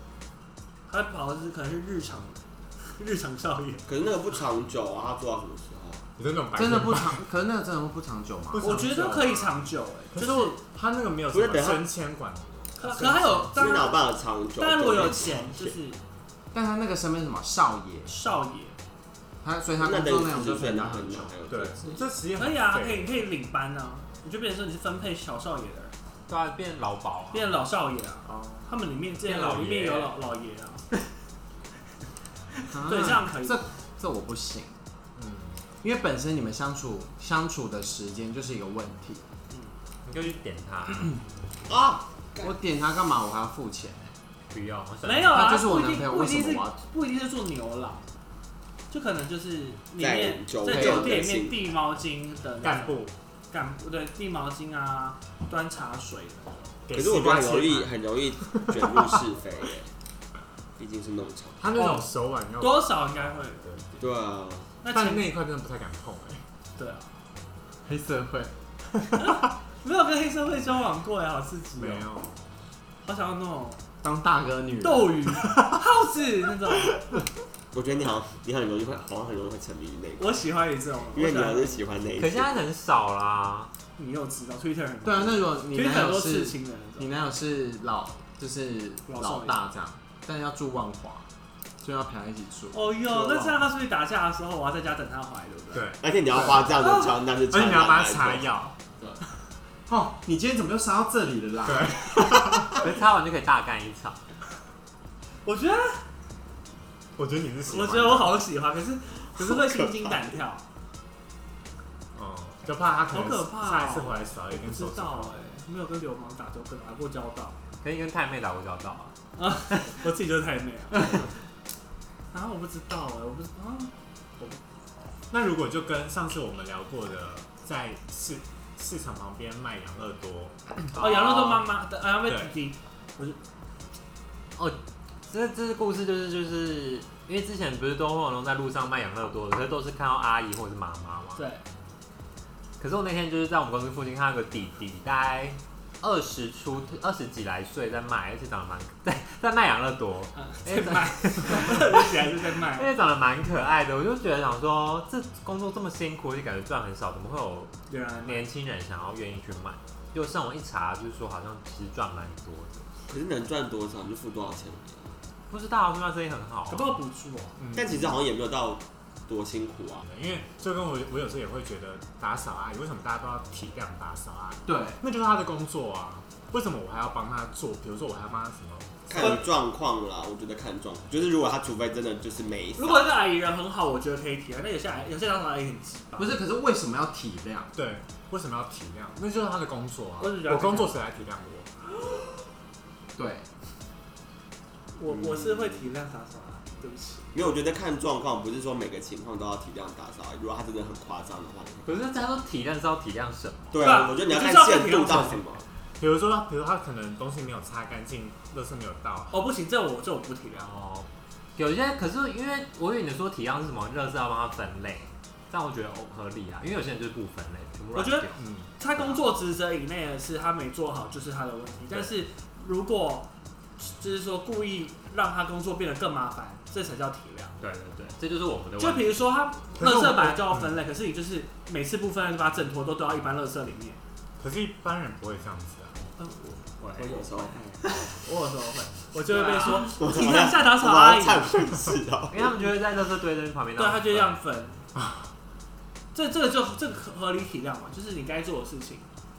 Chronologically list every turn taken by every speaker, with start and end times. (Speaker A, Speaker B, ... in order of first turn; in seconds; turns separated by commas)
Speaker A: 0.9-3.8, Speaker B: 3.9-6.0, Speaker C: 6.2-7.2, Speaker D: 6.5-8.8, Speaker C: 8.5-9.6, Speaker A: 8.6-10.6, Speaker C: 10.1-13.4, Speaker B: 11.3-11.9, Speaker A: 12.8-14.0, Speaker B: 13.5-15.8, Speaker A: 14.6-16.0, Speaker D: 16.5-18.1, Speaker A: 18.1-18.8, Speaker D: 19.4-21.3, Speaker B: 19.8-22.0, Speaker C: 21.5-23.2, Speaker A: 22.4-25.9, Speaker E: 26.3-27.6, Speaker A: 27.3-30.8, Speaker C: 28.3-28.6, Speaker E: 29.2-30.1, Speaker D: 32.7-34.8, Speaker A: 32.8-33.6, Speaker C: 35.1-35.6, Speaker D: 35.8-39.2, Speaker E: 40.0-41.2, Speaker B: 41.7-42.5, Speaker D: 42.4-44.1, Speaker E: 44.5-45.5, Speaker A: 45.0-48.0, Speaker D: 45.3-46.8, Speaker A: 48.9-56.8, Speaker B: 50.0-51.6, Speaker C: 52.6-53.1, Speaker C: 56.9-58.9, Speaker B: 56.9-59.9, Speaker B: 60.8-61.7, Speaker C: 61.6-63.8, Speaker A: 61.7-63.8, Speaker B: 64.0-64.7, Speaker A: 64.8-65.3, Speaker C: 64.9-66.4, Speaker A: 66.8-67.2, Speaker D: 67.8-68.5, Speaker A: 69.2-72.1, Speaker C: 71.8-72.4, Speaker A: 73.0-73.8, Speaker D: 74.0-75.5, Speaker A: 74.8-77.1, Speaker B: 77.7-80.4, Speaker A: 80.2-81.8, Speaker B: 81.1-82.6, Speaker E: 82.2-83.7, Speaker A: 84.0-87.1, Speaker D: 85.0-91.3, Speaker A: 89.1-89.6, Speaker D: 91.8-93.6, Speaker A: 92.7-95.9, Speaker C: 95.7-96.0, Speaker B: 96.0-98.5, Speaker A: 96.8-97.2, Speaker C: 97.5-98.8, Speaker D: 99.9-102.1, Speaker C: 101.7-102.8, Speaker E: 102.8-104.2, Speaker A: 105.4-106.0, Speaker C: 107.2-108.4, Speaker A: 107.6-110.6, Speaker C: 112.1-115.3, Speaker A: 113.1-117.6, Speaker E: 117.8-119.1, Speaker A: 119.3-121.3, Speaker A: 122.3-124.6, Speaker C: 125.3-130.9, Speaker A: 130.9-133.4, Speaker C: 132.2-132.5, Speaker E: 134.6-141.4, Speaker A: 141.3-141.6, Speaker E: 142.8-162.9, Speaker A: 150.3-152.9, Speaker A: 157.9-158.5, Speaker B: 163.1-165.1, Speaker E: 165.5-166.9, Speaker A: 166.7-167.6, Speaker C: 167.6-168.2, Speaker B: 167.7-170.1, Speaker C: 170.0-179.4, Speaker D: 174.7-175.0, Speaker B: 179.1-183.0, Speaker A: 182.8-186.4, Speaker D: 186.2-187.7, Speaker C: 187.7-191.7, Speaker A: 190.2-191.0, Speaker D: 193.2-193.4, Speaker A: 194.9-197.5, Speaker B: 197.3-202.0, Speaker E: 201.8-203.9, Speaker B: 203.7-205.7, Speaker A: 203.8-205.4, Speaker C: 206.0-209.4, Speaker A: 209.3-210.7, Speaker E: 210.5-218.4, Speaker A: 217.9-227.6, Speaker C: 218.4-218.7, Speaker E: 227.6-229.2, Speaker A: 228.8-234.0, Speaker C: 229.8-230.8, Speaker C: 234.4-236.0, Speaker A: 236.2-236.6, Speaker E: 236.8-237.3, Speaker B: 237.0-237.6, Speaker A: 237.3-241.6, Speaker B: 239.7-242.6, Speaker E: 242.3-244.4, Speaker A: 243.8-244.8, Speaker A: 246.1-249.1